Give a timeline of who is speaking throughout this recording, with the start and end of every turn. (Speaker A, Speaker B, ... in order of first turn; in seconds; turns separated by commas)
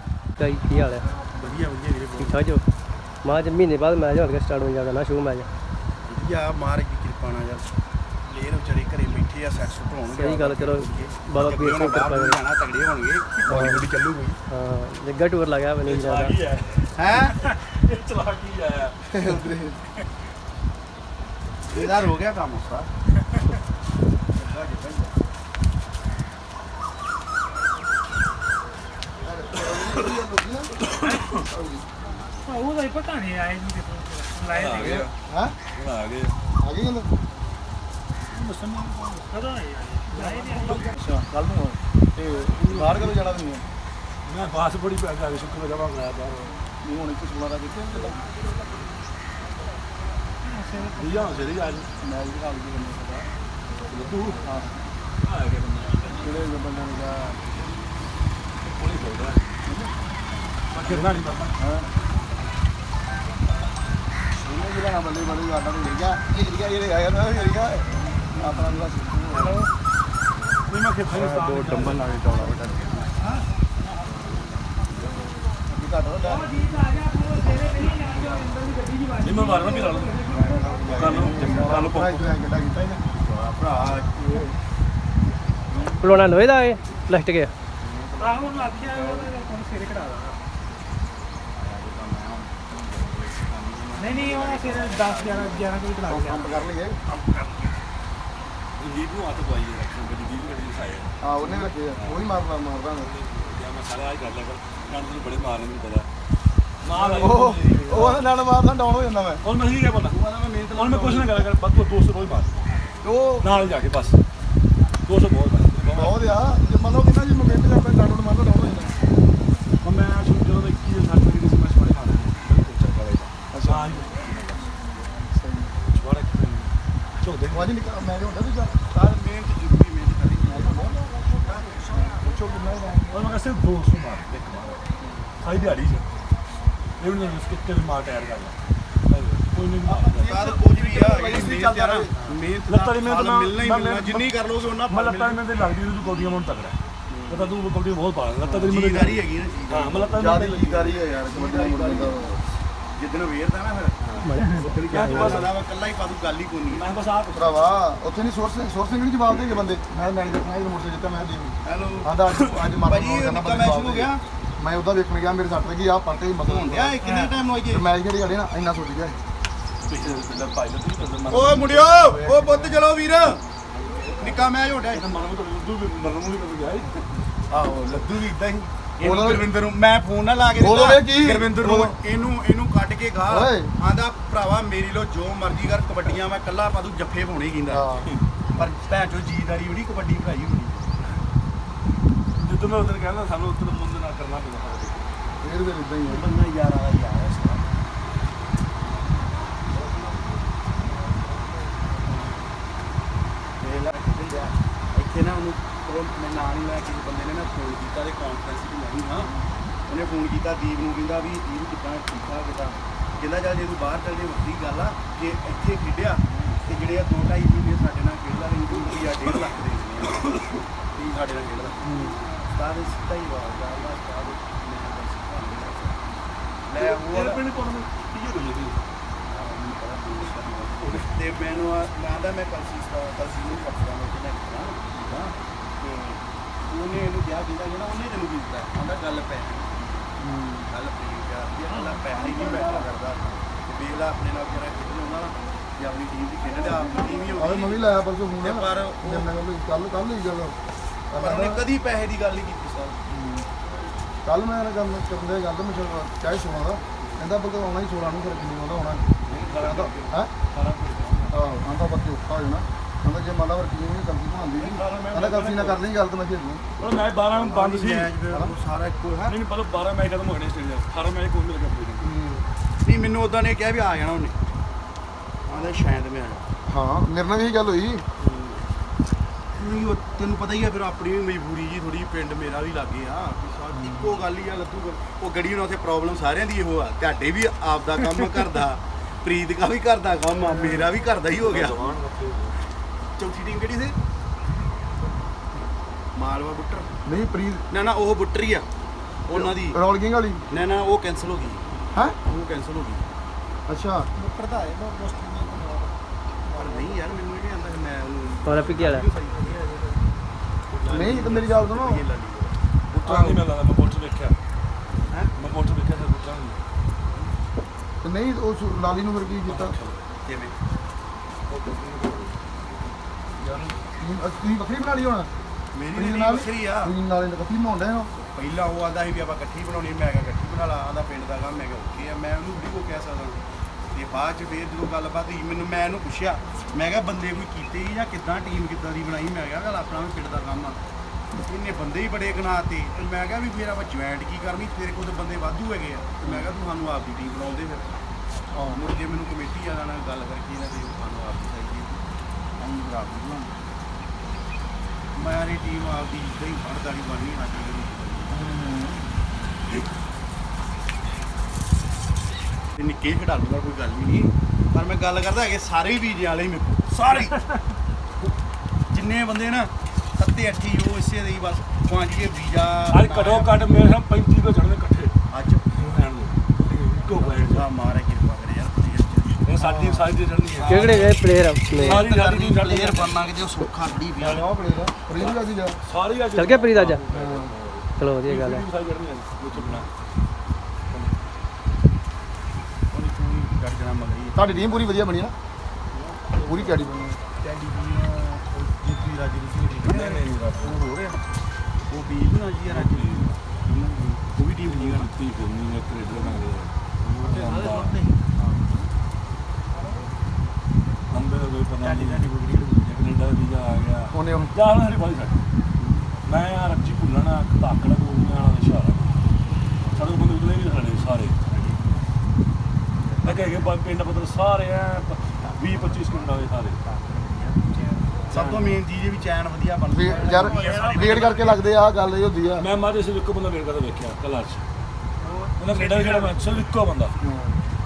Speaker A: 0.4-1.1, Speaker B: 1.4-2.4, Speaker A: 2.2-2.6, Speaker A: 3.2-5.5, Speaker B: 6.1-7.7, Speaker B: 8.3-14.4, Speaker A: 10.1-12.4, Speaker A: 13.5-13.8, Speaker C: 13.5-13.8, Speaker A: 14.5-16.3, Speaker D: 15.8-19.1, Speaker B: 16.9-17.3, Speaker C: 19.1-19.8, Speaker B: 21.7-22.9, Speaker B: 24.3-25.1, Speaker C: 29.2-30.8, Speaker D: 30.8-31.5, Speaker C: 31.3-31.8, Speaker E: 32.4-35.0, Speaker D: 34.5-35.1, Speaker C: 34.8-35.5, Speaker D: 35.7-36.3, Speaker C: 36.6-37.1, Speaker D: 38.3-39.3, Speaker E: 39.3-40.9, Speaker C: 40.1-43.6, Speaker D: 42.5-43.3, Speaker D: 44.2-46.4, Speaker C: 46.8-48.2, Speaker E: 50.4-51.0, Speaker D: 50.9-51.9, Speaker C: 52.0-53.2, Speaker D: 53.9-54.4, Speaker D: 55.2-56.2, Speaker C: 56.2-57.5, Speaker D: 58.6-59.4, Speaker D: 60.7-61.5, Speaker C: 60.9-61.8, Speaker C: 64.4-69.6, Speaker D: 70.7-72.1, Speaker C: 71.2-72.7, Speaker B: 71.2-73.1, Speaker B: 75.7-78.5, Speaker E: 76.5-80.8, Speaker D: 79.2-80.3, Speaker B: 80.4-81.9, Speaker C: 80.5-83.0, Speaker D: 80.9-82.2, Speaker B: 82.9-84.4, Speaker C: 84.2-84.5, Speaker B: 85.7-86.0, Speaker A: 86.0-87.5, Speaker B: 87.8-89.3, Speaker E: 88.2-90.3, Speaker B: 91.5-96.5, Speaker E: 94.0-96.4, Speaker C: 96.0-97.0, Speaker D: 97.1-97.8, Speaker D: 98.8-101.1, Speaker C: 101.2-103.1, Speaker D: 101.9-102.2, Speaker D: 103.0-106.1, Speaker D: 106.8-108.2, Speaker B: 107.0-108.1, Speaker C: 107.0-109.4, Speaker D: 109.4-110.2, Speaker B: 110.1-111.5, Speaker D: 110.7-112.5, Speaker C: 113.0-113.5, Speaker D: 113.4-114.2, Speaker D: 115.0-116.4, Speaker C: 115.9-119.0, Speaker D: 119.8-124.7, Speaker C: 123.5-124.0, Speaker C: 125.1-125.8, Speaker D: 125.8-127.8, Speaker C: 127.5-128.8, Speaker B: 128.9-130.8, Speaker C: 130.4-131.0, Speaker B: 131.3-132.1, Speaker C: 131.9-133.3, Speaker D: 133.1-134.8, Speaker D: 135.4-136.1, Speaker D: 137.0-138.5, Speaker D: 139.1-140.4, Speaker B: 139.9-145.4, Speaker C: 140.0-142.1, Speaker D: 142.2-144.3, Speaker D: 144.9-150.9, Speaker B: 147.1-147.5, Speaker B: 148.4-150.2, Speaker C: 150.1-152.4, Speaker B: 150.9-152.4, Speaker B: 152.9-153.9, Speaker D: 154.0-155.5, Speaker A: 154.2-155.4, Speaker C: 154.6-155.4, Speaker B: 154.6-156.8, Speaker D: 156.7-157.8, Speaker C: 157.3-167.2, Speaker B: 161.6-164.2, Speaker B: 166.4-167.9, Speaker C: 167.7-169.2, Speaker D: 169.8-172.8, Speaker B: 171.3-173.4, Speaker D: 173.7-177.1, Speaker B: 174.2-175.1, Speaker B: 177.5-187.9, Speaker C: 177.5-178.0, Speaker D: 177.7-178.0, Speaker C: 179.0-179.5, Speaker C: 180.6-182.0, Speaker C: 183.3-183.7, Speaker C: 187.7-188.1, Speaker B: 188.5-191.1, Speaker D: 192.4-195.1, Speaker C: 195.4-196.2, Speaker B: 196.0-197.8, Speaker D: 199.7-200.5, Speaker B: 203.6-209.3, Speaker B: 209.8-220.2, Speaker B: 220.9-226.0, Speaker C: 221.8-222.2, Speaker B: 226.7-227.4, Speaker D: 226.8-228.8, Speaker B: 229.3-240.1, Speaker D: 230.8-231.1, Speaker C: 240.2-240.7, Speaker B: 240.7-247.9, Speaker C: 247.3-250.6, Speaker B: 248.4-249.3, Speaker C: 251.1-251.6, Speaker B: 251.2-253.0, Speaker C: 253.1-253.5, Speaker C: 254.2-260.3, Speaker D: 259.2-261.4, Speaker C: 261.3-266.8, Speaker D: 264.6-265.8, Speaker D: 266.8-268.1, Speaker B: 267.3-269.4, Speaker D: 269.3-272.1, Speaker C: 272.0-272.4, Speaker B: 272.8-274.4, Speaker B: 275.5-276.5, Speaker C: 276.7-278.1, Speaker B: 278.2-278.5, Speaker B: 279.5-291.8, Speaker C: 283.7-284.2, Speaker D: 290.5-292.5, Speaker B: 293.2-294.0, Speaker B: 296.1-296.9, Speaker C: 297.0-297.6, Speaker B: 297.7-298.7, Speaker B: 299.3-299.8, Speaker C: 299.3-300.4, Speaker B: 300.5-303.1, Speaker C: 303.7-304.1, Speaker B: 304.1-305.9, Speaker C: 306.5-306.9, Speaker B: 306.5-310.0, Speaker A: 308.4-309.0, Speaker B: 310.7-313.4, Speaker D: 310.8-311.2, Speaker C: 310.8-312.0, Speaker C: 313.0-313.4, Speaker D: 313.0-314.4, Speaker D: 315.3-316.6, Speaker C: 318.0-319.8, Speaker D: 319.5-319.9, Speaker B: 320.1-320.6, Speaker D: 321.5-322.5, Speaker C: 323.4-325.3, Speaker B: 325.7-326.9, Speaker C: 325.9-328.1, Speaker B: 328.1-340.8, Speaker B: 341.4-348.0, Speaker C: 346.2-346.5, Speaker C: 348.5-348.8, Speaker B: 348.7-352.0, Speaker B: 352.6-353.5, Speaker B: 355.1-358.5, Speaker C: 358.3-359.1, Speaker B: 362.7-367.4, Speaker B: 368.9-373.7, Speaker D: 372.9-375.1, Speaker B: 375.3-376.0, Speaker D: 375.7-377.8, Speaker B: 377.4-379.6, Speaker D: 379.4-381.2, Speaker C: 379.6-380.0, Speaker B: 380.5-381.2, Speaker A: 380.6-382.0, Speaker B: 381.7-384.4, Speaker D: 381.8-383.1, Speaker C: 384.2-385.8, Speaker D: 385.1-389.9, Speaker A: 386.3-387.0, Speaker C: 387.1-387.5, Speaker A: 388.0-388.6, Speaker B: 392.9-394.9, Speaker C: 394.3-395.3, Speaker D: 395.9-396.9, Speaker C: 396.4-397.2, Speaker B: 397.4-401.2, Speaker D: 399.8-400.8, Speaker B: 401.9-405.1, Speaker D: 402.7-403.3, Speaker D: 404.6-408.0, Speaker B: 407.0-408.9, Speaker D: 411.1-415.4, Speaker B: 411.8-412.8, Speaker C: 414.1-414.5, Speaker B: 415.8-416.0, Speaker D: 416.2-419.2, Speaker D: 419.9-421.4, Speaker B: 421.5-421.8, Speaker B: 423.0-423.7, Speaker D: 423.2-426.8, Speaker B: 425.6-426.2, Speaker B: 426.8-427.7, Speaker B: 428.3-431.6, Speaker C: 428.3-428.7, Speaker C: 429.9-432.7, Speaker D: 430.4-431.4, Speaker D: 432.6-434.6, Speaker B: 435.2-436.3, Speaker D: 435.6-437.2, Speaker C: 437.2-437.6